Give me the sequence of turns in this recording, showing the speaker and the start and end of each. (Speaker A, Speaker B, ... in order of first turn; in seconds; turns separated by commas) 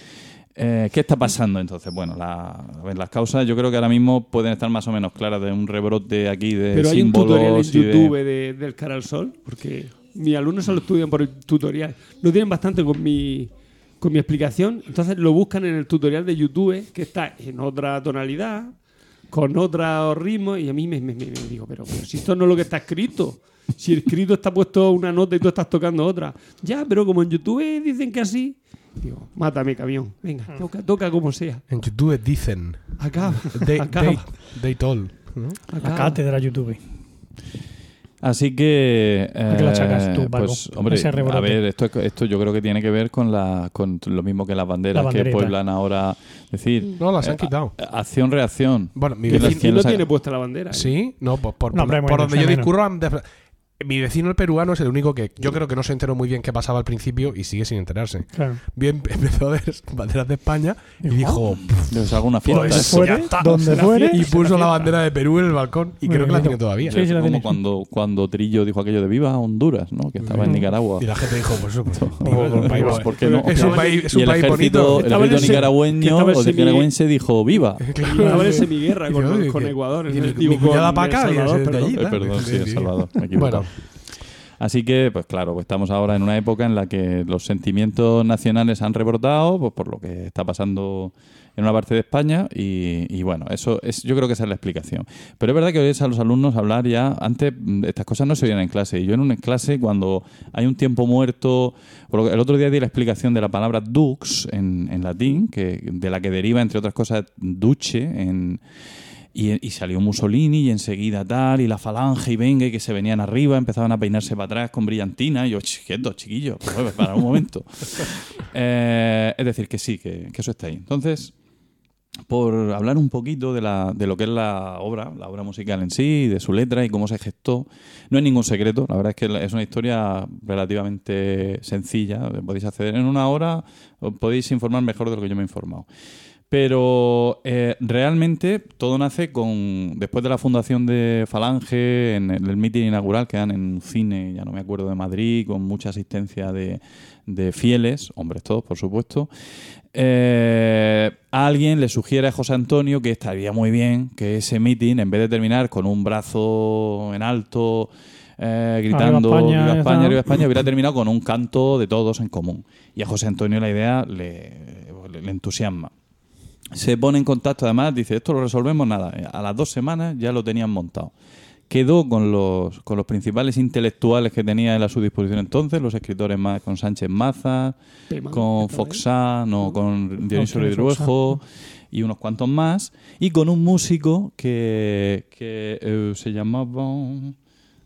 Speaker A: 0.6-8.2, Speaker B: 6.7-18.7, Speaker B: 19.3-31.6, Speaker C: 31.7-35.6, Speaker B: 33.0-34.3, Speaker B: 35.7-36.2, Speaker D: 35.8-36.8, Speaker A: 38.2-50.0, Speaker D: 39.5-41.6, Speaker D: 44.9-45.5, Speaker C: 47.0-47.7, Speaker C: 48.9-49.7, Speaker B: 49.3-51.0, Speaker C: 50.7-53.2, Speaker D: 51.7-52.7, Speaker C: 53.8-67.0, Speaker D: 58.3-58.6, Speaker D: 61.0-61.4, Speaker A: 61.8-63.2, Speaker D: 62.5-64.2, Speaker B: 63.6-64.9, Speaker D: 66.0-67.6, Speaker A: 66.8-71.1, Speaker C: 70.2-75.7, Speaker A: 71.9-78.0, Speaker D: 72.2-73.0, Speaker B: 73.1-74.1, Speaker B: 74.9-76.9, Speaker C: 77.8-83.7, Speaker B: 78.0-82.0, Speaker A: 81.9-83.7, Speaker A: 84.6-108.6, Speaker A: 109.3-121.3, Speaker A: 122.3-135.8, Speaker A: 136.5-149.3, Speaker A: 149.9-165.9, Speaker D: 158.9-160.2, Speaker A: 166.7-171.1, Speaker A: 171.7-177.8, Speaker B: 178.1-179.0, Speaker A: 178.3-187.3, Speaker D: 180.3-181.4